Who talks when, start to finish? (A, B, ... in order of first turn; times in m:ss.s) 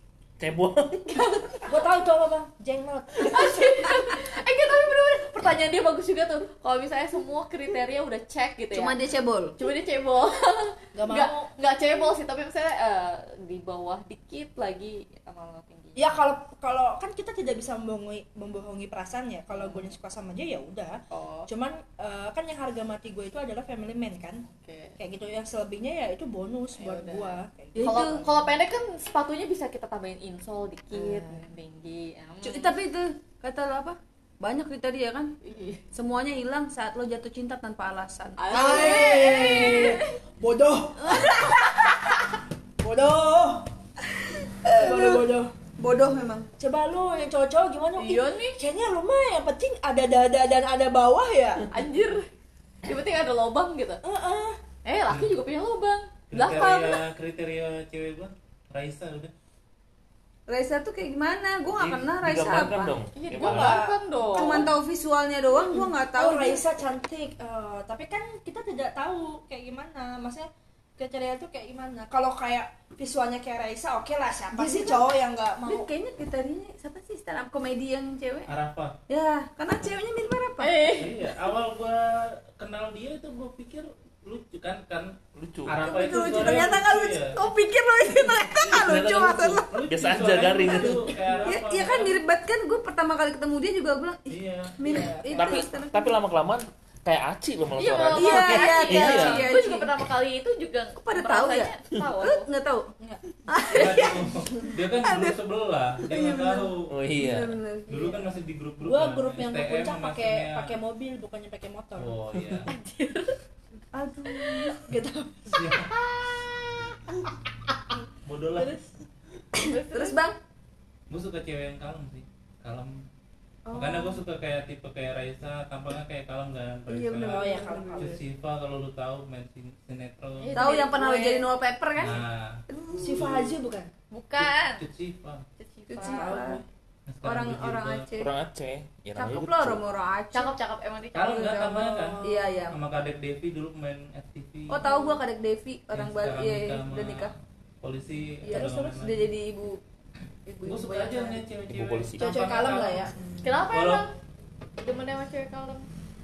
0:00.4-0:01.2 A
0:01.1-0:01.8 B
0:01.6-0:04.2 C
0:03.2-0:09.0 B
0:08.7-0:09.6 D
0:09.6-0:16.1 B
0:10.9-0:11.5 C
0:16.0-0:24.4 C
0:19.5-0:19.9 B
0:21.1-0:21.5 B
0:24.5-0:25.0 B
0:25.0-0:28.4 C
0:26.8-0:32.7 B
0:27.7-0:28.2 D
0:30.9-0:31.4 D
0:32.4-0:35.3 D
0:35.4-0:35.8 B
0:35.9-0:39.8 D
0:38.4-0:40.2 B
0:38.5-0:42.2 C
0:41.0-0:41.9 D
0:42.8-0:43.6 C
0:44.1-0:46.5 D
0:44.7-0:45.5 C
0:46.6-0:51.6 C
0:48.0-0:48.6 B
0:51.7-0:52.3 B
0:52.8-0:54.0 B
0:54.0-0:54.6 C
0:54.8-0:57.0 B
0:56.3-0:59.3 E
1:00.5-1:02.9 D
1:01.7-1:03.8 A
1:03.2-1:04.7 B
1:03.4-1:04.6 C
1:04.3-1:06.6 D
1:05.6-1:15.9 C
1:14.5-1:15.1 D
1:15.6-1:18.5 D
1:18.5-1:18.9 E
1:19.1-1:20.9 D
1:20.6-1:21.1 B
1:21.0-1:25.2 E
1:25.4-1:26.0 A
1:25.7-1:27.4 E
1:25.8-1:29.7 D
1:26.3-1:26.7 C
1:28.5-1:32.2 E
1:29.9-1:31.0 A
1:30.6-1:36.1 D
1:34.3-1:34.8 E
1:34.9-1:35.5 C
1:34.9-1:35.3 B
1:35.3-1:39.5 A
1:37.8-1:42.4 B
1:38.2-1:39.9 D
1:41.0-1:42.9 D
1:43.5-1:45.4 D
1:43.7-1:46.9 E
1:46.1-1:48.2 D
1:46.9-1:47.5 A
1:47.9-1:50.8 E
1:48.8-1:52.2 C
1:52.0-1:52.7 E
1:52.7-1:53.4 B
1:53.9-1:54.9 D
1:54.8-1:55.8 C
1:55.5-1:55.9 E
1:58.2-1:58.8 E
1:59.6-2:00.3 B
1:59.7-2:00.4 D
2:01.1-2:03.0 E
2:03.7-2:04.2 D
2:03.7-2:10.6 E
2:06.9-2:08.2 D
2:07.2-2:08.2 C
2:10.4-2:11.4 B
2:10.5-2:13.3 D
2:12.0-2:12.6 E
2:13.0-2:13.9 C
2:13.1-2:13.5 E
2:14.1-2:14.8 B
2:14.4-2:15.4 E
2:15.6-2:16.4 B
2:15.9-2:16.6 D
2:16.0-2:16.6 C
2:17.1-2:18.1 E
2:17.2-2:18.3 D
2:18.2-2:19.8 A
2:19.2-2:20.5 D
2:20.3-2:21.6 B
2:21.1-2:24.8 E
2:21.3-2:22.8 D
2:21.7-2:22.7 C
2:24.7-2:27.3 D
2:25.9-2:29.2 E
2:28.4-2:29.8 D
2:28.5-2:29.0 C
2:30.4-2:31.4 D
2:30.6-2:33.1 E
2:31.6-2:32.4 A
2:32.2-2:33.1 C
2:33.4-2:34.1 B
2:33.7-2:34.0 E
2:34.8-2:35.8 B